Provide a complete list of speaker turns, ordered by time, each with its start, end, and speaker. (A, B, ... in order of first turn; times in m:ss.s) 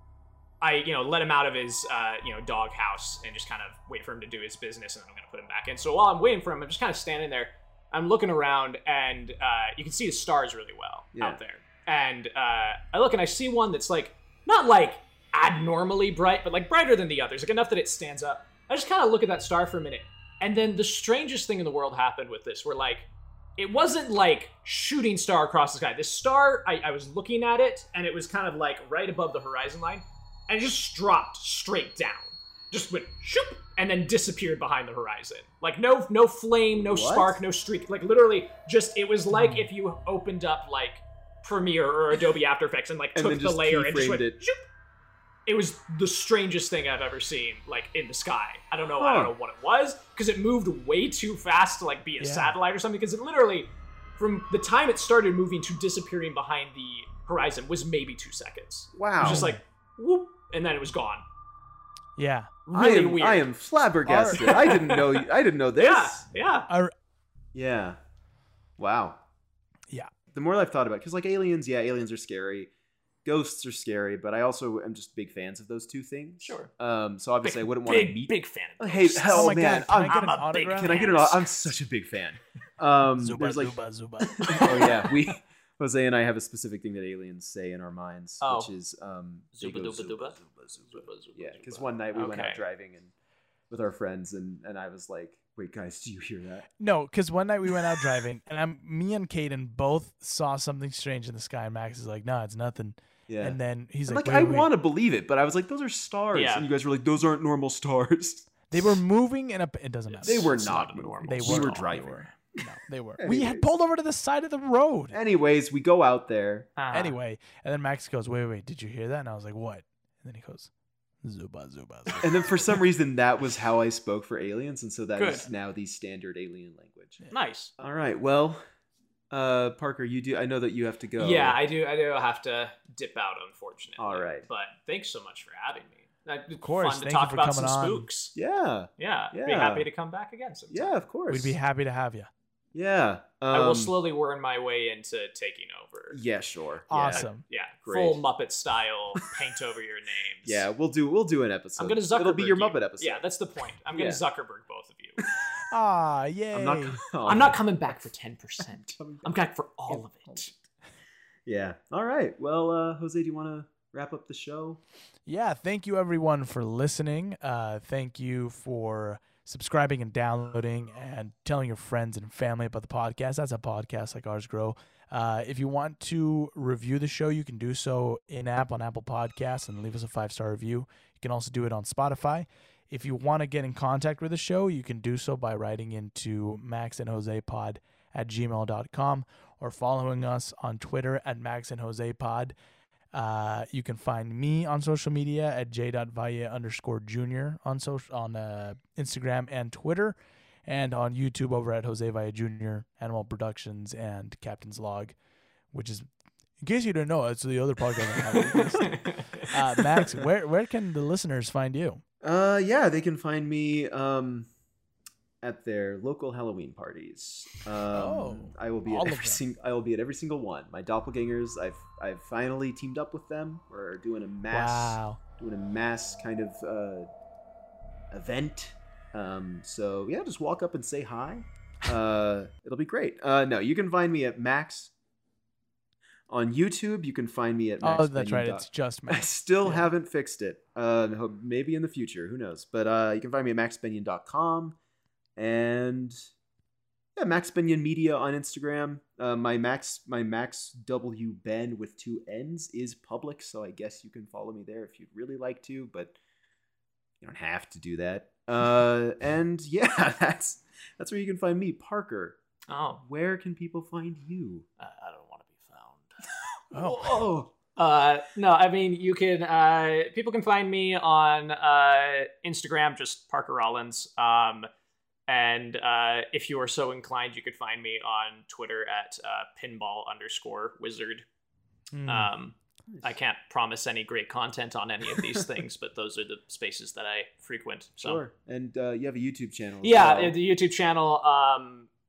0:00.6-0:44.6 A
0:11.1-0:11.4 B
0:36.7-0:37.4 B
0:39.3-0:39.7 C
0:43.1-0:44.4 B
0:45.4-1:01.2 A
0:49.0-0:49.3 B
0:52.2-0:52.6 C
0:58.9-0:59.6 B
0:59.2-0:59.6 C
1:02.2-1:02.5 C
1:02.6-1:03.5 A
1:02.7-1:06.2 B
1:04.0-1:04.4 C
1:04.3-1:05.2 A
1:05.8-1:06.7 A
1:06.7-1:06.9 C
1:07.5-1:08.0 B
1:08.8-1:09.2 B
1:10.3-1:12.7 B
1:13.2-1:33.1 B
1:16.4-1:16.7 A
1:17.4-1:19.6 A
1:19.3-1:21.1 C
1:20.1-1:21.7 A
1:23.2-1:24.8 C
1:24.5-1:25.1 A
1:28.4-1:28.7 A
1:29.6-1:32.6 A
1:33.7-1:36.7 B
1:36.8-1:44.7 C
1:43.3-1:48.5 B
1:46.3-1:46.7 A
1:48.7-1:55.2 C
1:50.1-1:52.0 A
1:50.2-1:52.3 B
1:53.2-1:53.8 B
1:55.1-1:56.7 B
1:56.8-1:57.2 A
1:56.9-2:00.7 C
2:01.2-2:02.8 C
2:02.2-2:07.2 B
2:05.2-2:05.5 A
2:07.3-2:07.7 A
2:07.8-2:08.6 B
2:09.3-2:11.6 B
2:11.2-2:18.3 A
2:14.0-2:14.4 B
2:16.6-2:18.1 C
2:18.3-2:19.9 B
2:19.0-2:21.0 A
2:20.7-2:21.6 B
2:21.3-2:22.3 C
2:22.7-2:23.9 B
2:23.5-2:26.2 A
2:26.1-2:27.3 B
2:26.9-2:27.4 C
2:27.0-2:30.7 A
2:27.8-2:28.2 B
2:30.4-2:33.2 B
2:31.8-2:35.2 A
2:33.9-2:34.2 B
2:35.7-2:37.0 C
2:36.5-2:37.6 B
2:37.2-2:40.5 A
2:38.9-2:39.4 B
2:41.4-2:44.8 B
2:45.2-3:12.5 C
3:13.1-3:25.2 C
3:25.7-3:26.0 C
3:26.6-3:32.0 C
3:28.2-3:30.2 A
3:32.2-3:34.5 B
3:35.4-3:47.1 B
3:37.9-3:39.4 C
3:44.5-3:45.2 C
3:48.1-3:54.9 B
3:56.3-4:04.8 B
3:57.8-3:59.9 C
4:05.4-4:06.2 B
4:07.2-4:16.1 B
4:17.2-4:22.4 B
4:22.7-4:23.0 A
4:23.0-4:24.6 B
4:24.8-4:26.1 A
4:26.7-4:27.5 B
4:26.7-4:27.2 C
4:27.8-4:34.7 A
4:35.3-4:41.2 A
4:41.9-4:42.3 C
4:42.0-4:48.2 A
4:48.0-4:50.4 B
4:49.8-4:51.9 A